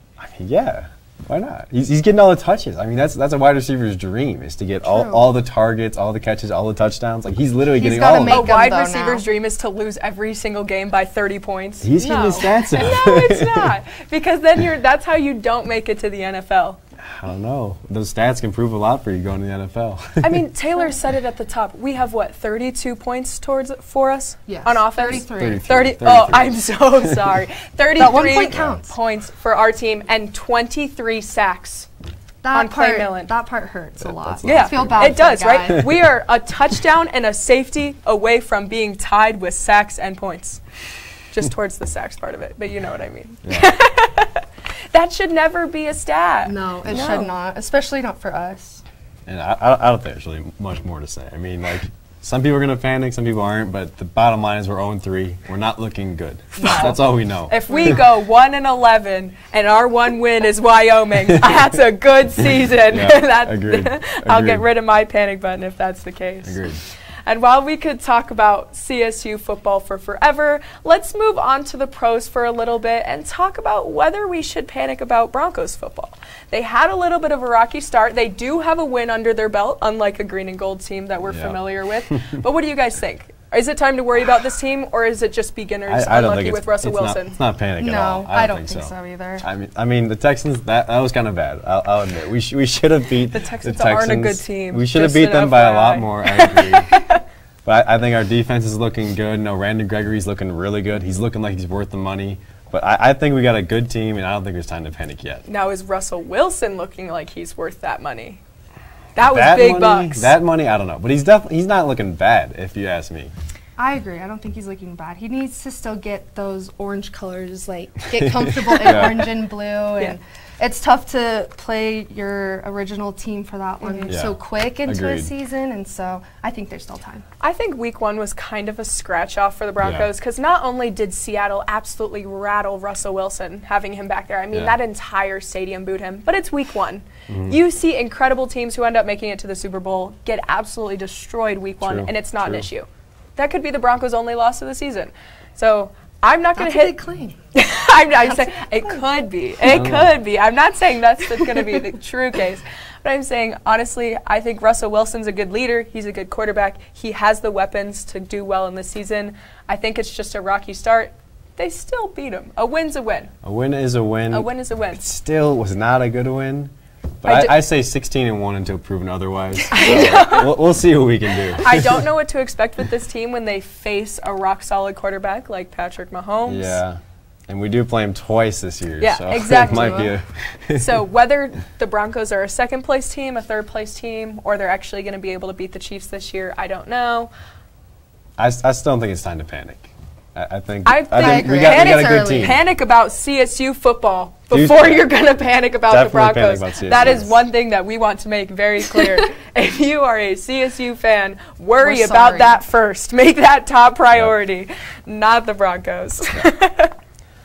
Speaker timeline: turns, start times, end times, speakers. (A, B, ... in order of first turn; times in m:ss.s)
0:00.2-0:08.5 A
0:04.8-0:05.2 B
0:07.7-0:09.2 B
0:08.3-0:16.8 C
0:11.8-0:13.7 A
0:17.0-0:20.4 A
0:20.2-0:31.9 C
0:24.5-0:25.6 B
0:25.2-0:27.2 A
0:28.0-0:28.9 B
0:32.4-0:35.8 B
0:32.5-0:33.3 C
0:34.0-0:35.2 A
0:34.4-0:40.6 C
0:41.3-0:47.3 C
0:43.4-0:43.7 A
0:46.4-0:48.8 B
0:49.3-0:58.0 A
0:56.6-0:56.9 B
0:56.6-0:56.9 C
0:57.5-1:27.4 C
1:02.8-1:04.6 A
1:06.4-1:06.8 A
1:21.3-1:22.4 A
1:25.9-1:37.0 A
1:27.8-1:29.4 B
1:33.3-1:37.2 C
1:37.6-1:45.4 A
1:45.4-1:48.4 C
1:49.1-1:50.3 C
1:49.2-1:53.3 A
1:53.8-2:07.2 B
1:58.2-1:59.3 A
1:58.9-1:59.2 C
2:03.8-2:04.2 C
2:04.1-2:05.3 A
2:07.4-2:27.0 C
2:09.8-2:10.1 A
2:14.5-2:14.8 A
2:17.3-2:17.6 A
2:21.8-2:22.6 A
2:26.6-2:27.4 B
2:27.5-2:43.3 C
2:28.3-2:29.0 B
2:29.7-2:30.1 A
2:43.4-2:52.1 A
2:44.3-2:45.1 C
2:47.2-2:47.6 C
2:49.7-2:50.5 C
2:51.5-2:56.8 C
2:56.4-3:01.0 A
2:59.0-3:00.1 C
3:00.7-3:07.3 C
3:08.4-3:12.6 A
3:10.8-3:26.9 C
3:11.2-3:12.6 B
3:14.5-3:15.1 A
3:15.9-3:17.4 A
3:21.8-3:22.5 B